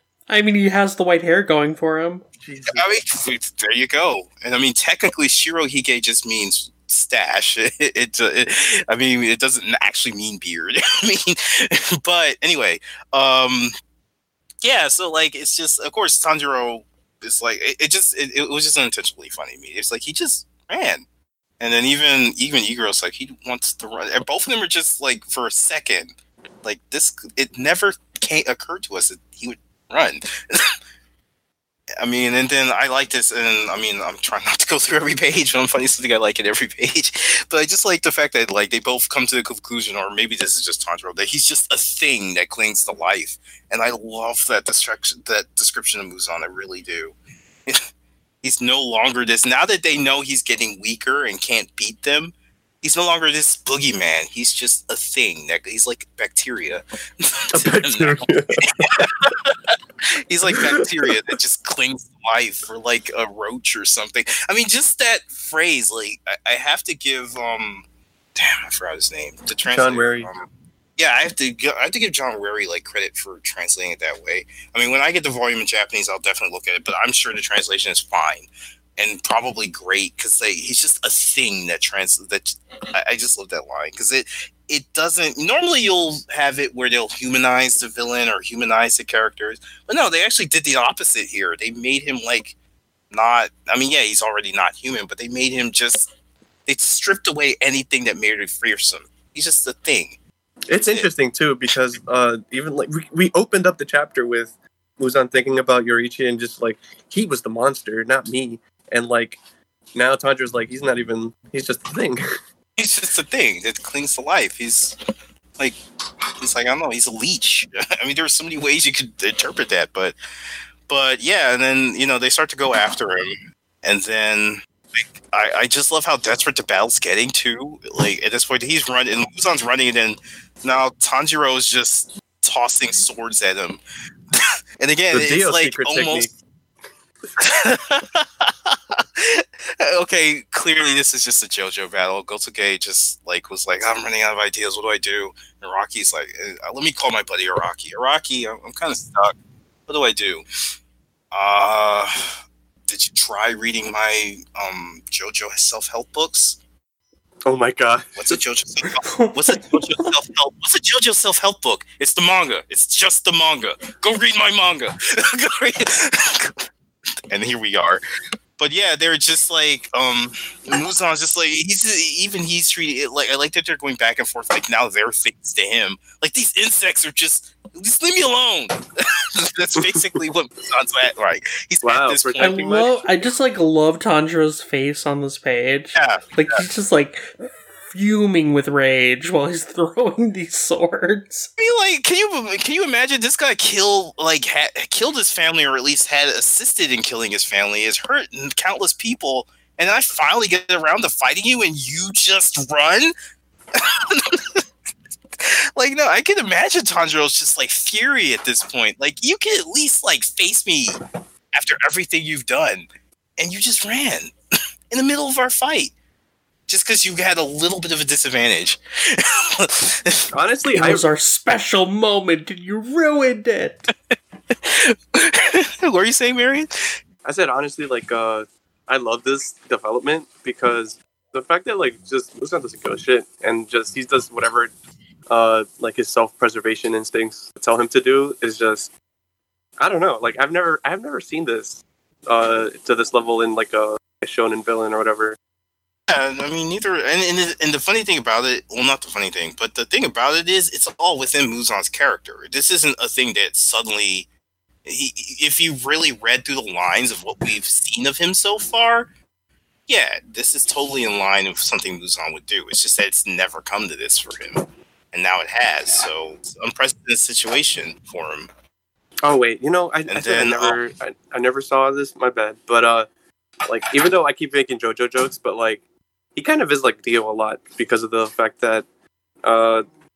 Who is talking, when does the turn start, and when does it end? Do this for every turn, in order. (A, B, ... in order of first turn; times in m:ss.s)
0:00.3-0:02.2 A
0:02.4-0:03.0 B
0:02.7-0:13.7 C
0:14.6-0:21.1 C
0:21.6-0:30.8 C
0:32.0-0:47.8 C
0:48.4-1:32.6 C
0:57.5-0:58.6 B
1:00.5-1:01.1 B
1:09.7-1:10.3 B
1:33.1-1:36.1 C
1:36.7-1:40.2 C
1:40.7-1:49.4 B
1:40.7-1:41.1 C
1:50.0-1:52.4 B
1:52.8-1:55.0 C
1:56.4-2:00.2 C
2:00.9-2:16.3 C
2:15.1-2:16.3 B
2:17.4-2:29.4 C
2:29.9-2:30.4 C
2:31.3-2:32.3 C
2:32.9-2:36.6 C
2:37.4-2:38.4 B
2:38.2-2:46.7 C
2:39.0-2:39.8 A
2:47.3-2:48.0 C
2:48.6-3:03.0 C
2:59.8-3:00.2 B
3:01.8-3:03.0 B
3:02.4-3:07.3 A
3:06.0-3:06.6 C
3:07.9-3:11.5 A
3:11.6-3:23.1 C
3:23.7-3:24.6 C
3:25.4-3:31.0 C
3:31.5-3:34.3 C
3:34.9-3:35.9 C
3:36.7-3:40.3 C
3:40.3-3:41.0 B
3:40.8-3:43.9 A
3:44.1-3:47.0 C
3:47.2-3:54.7 B
3:55.3-3:58.9 B
3:59.8-4:05.4 B
4:06.1-4:14.3 C
4:14.8-4:19.1 C
4:19.9-4:28.5 C
4:29.2-4:33.1 B
4:30.1-4:30.8 C
4:33.6-4:35.8 B
4:36.4-4:38.9 B
4:39.4-4:39.9 B